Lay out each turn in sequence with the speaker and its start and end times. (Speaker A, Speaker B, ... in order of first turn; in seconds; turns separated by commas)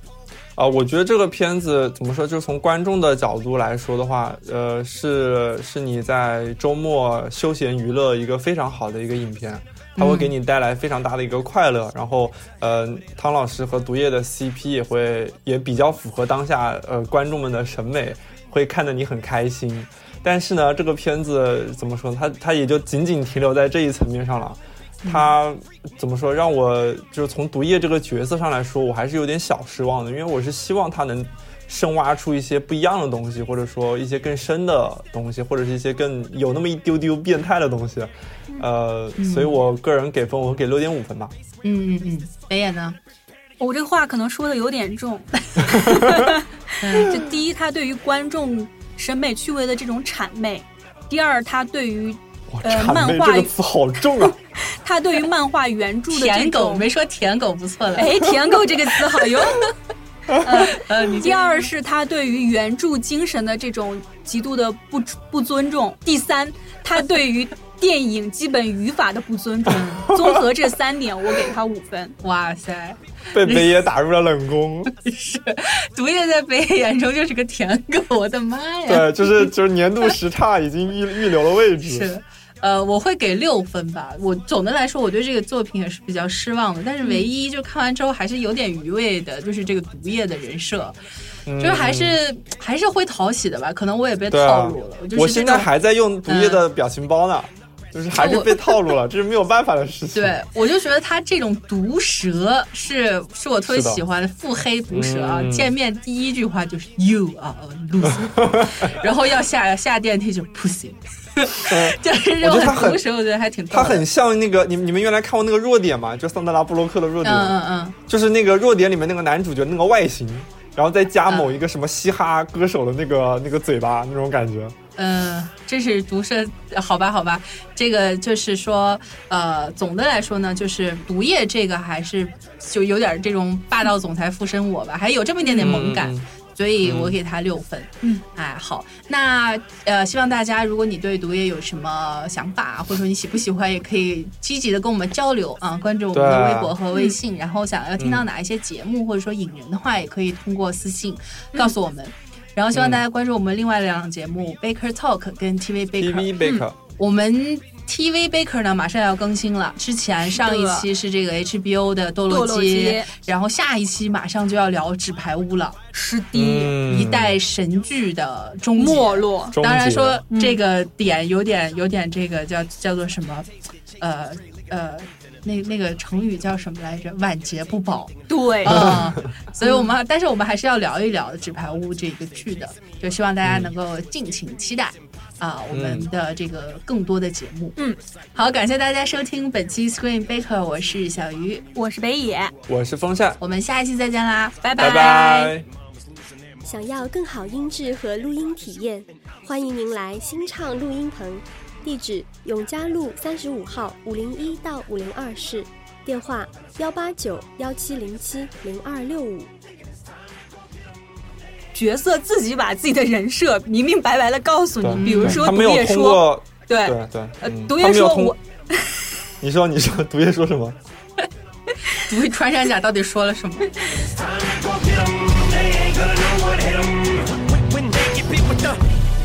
Speaker A: 0.6-41.3, Speaker B: 9.9-10.3, Speaker B: 25.0-25.3, Speaker B: 39.2-39.6, Speaker B: 41.6-43.0, Speaker C: 43.6-53.5, Speaker A: 45.6-46.3, Speaker B: 46.8-47.1, Speaker A: 52.5-54.4, Speaker C: 54.8-56.9, Speaker B: 56.1-58.3, Speaker C: 58.0-59.7, Speaker B: 59.1-59.7, Speaker C: 60.4-72.2, Speaker B: 60.6-61.7, Speaker B: 69.7-70.1, Speaker A: 70.1-70.3, Speaker B: 72.2-73.7, Speaker A: 73.3-74.9, Speaker B: 74.8-79.5, Speaker A: 78.9-82.1, Speaker B: 81.8-91.0, Speaker A: 91.5-92.2, Speaker B: 91.6-95.7, Speaker A: 94.3-100.4, Speaker B: 96.3-96.6, Speaker B: 98.1-98.8, Speaker B: 100.1-114.0, Speaker A: 103.7-104.0, Speaker A: 104.9-105.7, Speaker A: 108.0-109.0, Speaker A: 111.7-113.0, Speaker A: 113.7-117.5, Speaker B: 117.2-118.0, Speaker A: 118.1-124.8, Speaker B: 121.3-121.6, Speaker B: 125.0-156.4, Speaker A: 135.5-136.3, Speaker A: 136.8-137.2, Speaker A: 146.1-146.7, Speaker A: 148.0-148.2, Speaker A: 152.7-153.0, Speaker A: 156.0-156.8, Speaker B: 157.0-165.8, Speaker C: 160.3-160.9, Speaker C: 162.3-163.1, Speaker C: 165.9-166.8, Speaker A: 166.3-167.4, Speaker B: 166.8-173.5, Speaker C: 168.8-169.6, Speaker A: 169.5-170.2, Speaker C: 170.3-170.6, Speaker B: 174.0-187.8, Speaker C: 178.3-179.0, Speaker A: 178.6-179.2, Speaker C: 179.6-179.9, Speaker A: 183.4-183.7, Speaker A: 185.7-186.1, Speaker B: 188.3-191.6, Speaker C: 191.7-192.5, Speaker A: 192.7-193.4, Speaker B: 193.4-195.0, Speaker C: 194.6-195.5, Speaker A: 194.8-195.7, Speaker D: 196.6-209.5, Speaker C: 211.7-219.0, Speaker A: 214.8-218.3, Speaker B: 215.0-215.5, Speaker A: 219.4-220.8, Speaker B: 221.9-223.7, Speaker E: 224.0-228.8